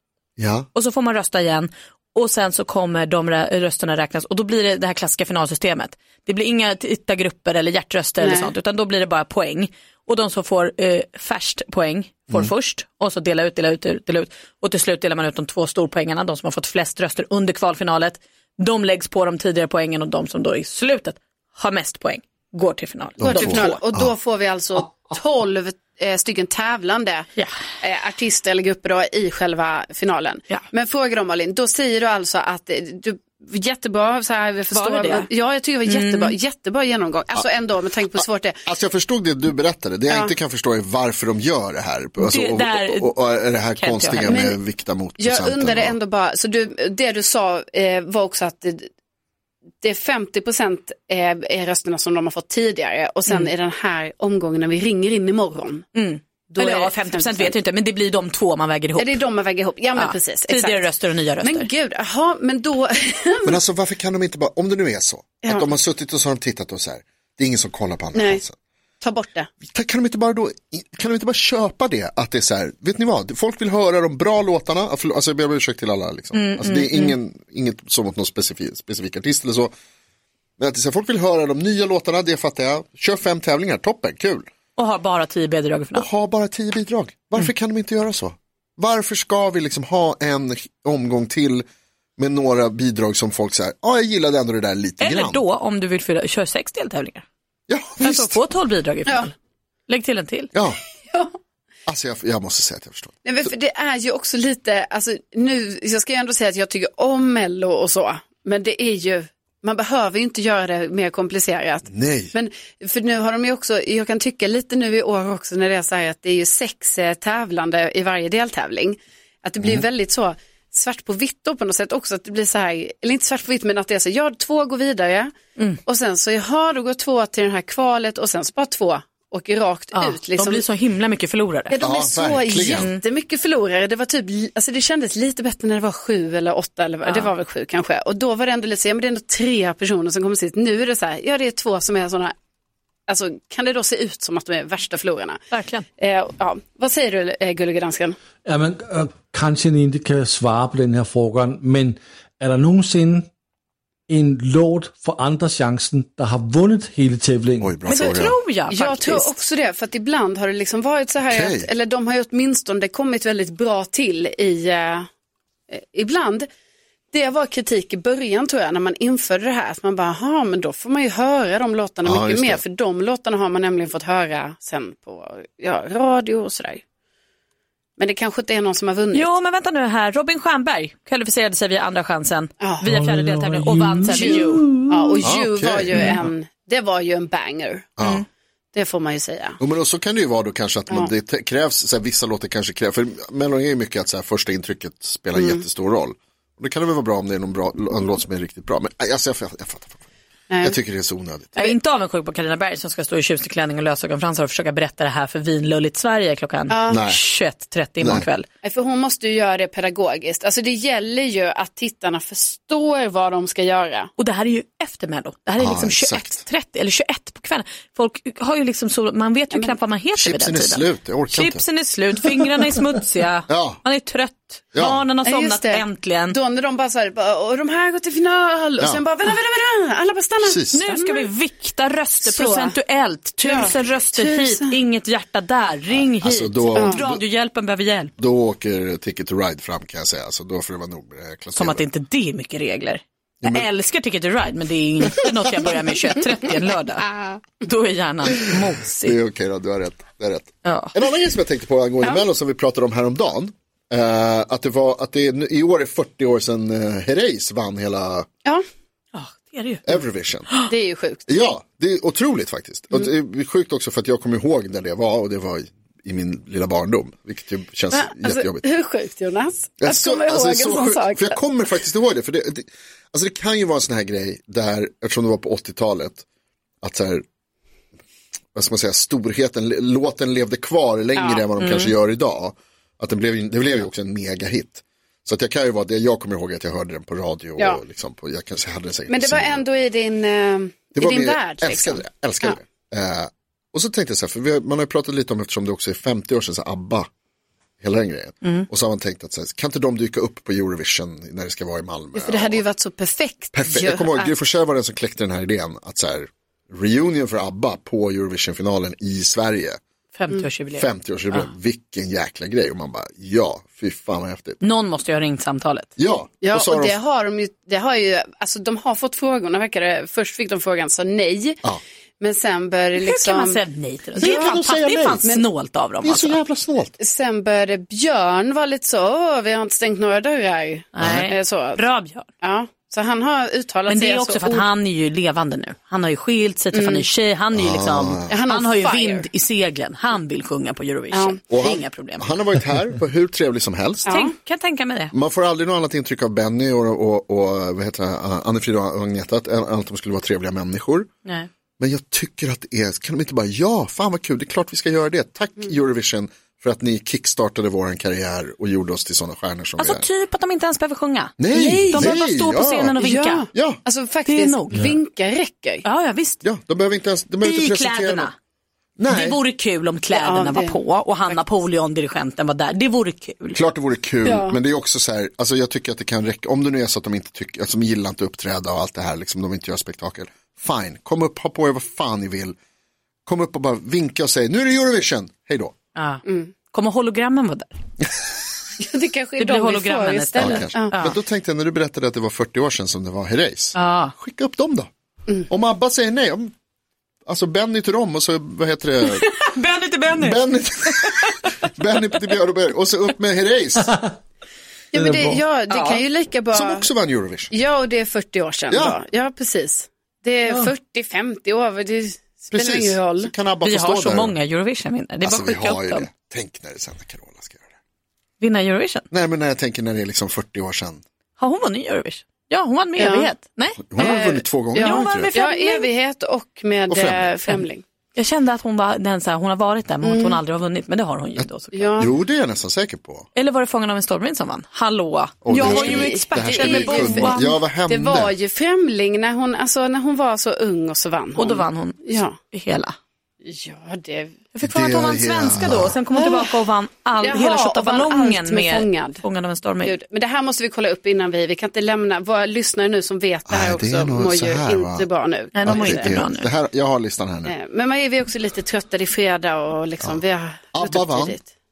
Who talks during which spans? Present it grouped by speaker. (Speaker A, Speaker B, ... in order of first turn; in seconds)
Speaker A: 0.4-0.7, 23.2-23.7, 38.2-46.0, 63.5-68.5, 69.7-79.7, 80.6-84.4, 85.9-91.7, 92.2-95.4, 97.7-98.4, 100.5-100.8, 101.9-103.5, 111.9-112.3, 131.8-132.9, 157.6-158.4, 161.3-161.7, 172.0-172.6, 185.2-186.2, 188.0-188.2, 189.6-200.0, 200.6-201.7, 206.9-207.2, 208.0-208.3, 215.6-216.4, 220.2-221.6, 223.5-223.8, 224.8-225.0, 230.4-230.8, 235.9-237.2, 238.2-241.8, 243.4-243.7, 249.0-258.3, 259.9-260.5, 261.3-268.6, 269.8-276.2, 276.8-277.2, 278.6-289.6, 290.9-297.1, 297.8-302.6, 303.5-309.8, 310.7-314.6, 316.0-317.0, 324.2-325.3, 326.0-326.9, 337.5-338.4, 341.5-344.2, 345.1-351.1, 351.8-360.1, 361.4-363.0, 363.5-363.8, 366.4-368.3, 369.0-369.4, 373.5-382.6, 383.3-385.7, 390.4-394.9, 395.5-396.5, 397.3-399.3, 400.1-404.0, 406.5-407.5, 408.7-409.0, 412.5-414.4, 415.2-417.7, 419.1-421.0, 423.9-425.3, 426.9-427.4, 432.0-433.3, 435.4-438.3, 444.6-446.0, 453.5-455.1, 455.6-457.5, 460.7-461.4
Speaker B: 0.7-23.8, 34.7-35.3, 35.9-36.3, 42.2-43.1, 43.8-44.5, 56.0-59.2, 60.0-61.7, 76.3-77.2, 84.8-86.1, 95.0-97.2, 98.0-99.3, 99.9-100.5, 129.9-131.8, 132.7-133.0, 137.0-137.3, 145.5-145.8, 157.9-159.3, 179.1-184.7, 188.0-188.2, 201.6-208.5, 214.2-226.4, 230.7-238.1, 241.6-249.2, 250.6-250.9, 259.1-260.7, 281.6-281.9, 310.1-311.5, 314.6-315.9, 323.0-326.4, 330.9-332.3, 333.9-342.3, 344.1-345.1, 359.8-363.5, 364.3-364.8, 365.8-366.4, 367.4-368.3, 369.1-373.6, 385.9-387.8, 389.4-391.2, 393.7-394.1, 399.0-401.5, 405.7-406.0, 413.6-416.1, 418.4-419.1, 421.4-424.2, 424.8-425.9, 428.1-432.1, 433.4-437.5, 441.4-443.0, 444.5-449.9, 455.5-456.5
Speaker C: 8.2-8.5, 23.2-27.3, 27.8-38.6, 40.1-40.3, 44.3-44.5, 45.2-48.9, 49.8-55.9, 56.5-57.5, 59.0-60.9, 61.4-63.6, 65.4-65.7, 68.1-68.4, 69.0-69.5, 101.1-101.3, 103.2-125.3, 125.9-130.6, 131.7-142.3, 143.1-145.4, 146.0-148.2, 157.9-165.1, 165.7-166.5, 167.1-176.8, 178.0-179.3, 184.1-187.9, 188.7-189.6, 195.4-195.6, 200.5-200.8, 206.7-207.0, 208.6-214.1, 225.2-231.3, 232.2-232.8, 233.4-234.8, 236.8-237.0, 260.7-261.5, 267.9-271.4, 281.2-281.5, 287.6-287.8, 289.1-292.6, 302.1-304.3, 316.4-321.6, 322.2-323.6, 324.2-324.6, 327.0-331.8, 332.4-334.7, 336.7-337.1, 338.3-339.3, 341.1-341.4, 344.1-344.3, 361.5-362.1, 363.0-365.9, 370.1-370.8, 374.2-374.6, 386.2-386.5, 388.8-391.0, 404.9-406.9, 407.5-413.3, 423.0-423.3, 424.0-427.8, 430.0-430.4, 431.7-432.1, 435.5-442.4, 443.4-444.4, 446.1-446.6, 447.2-449.2, 449.8-456.1, 457.5-461.5
Speaker D: 148.5-153.3, 154.1-157.7, 182.8-184.8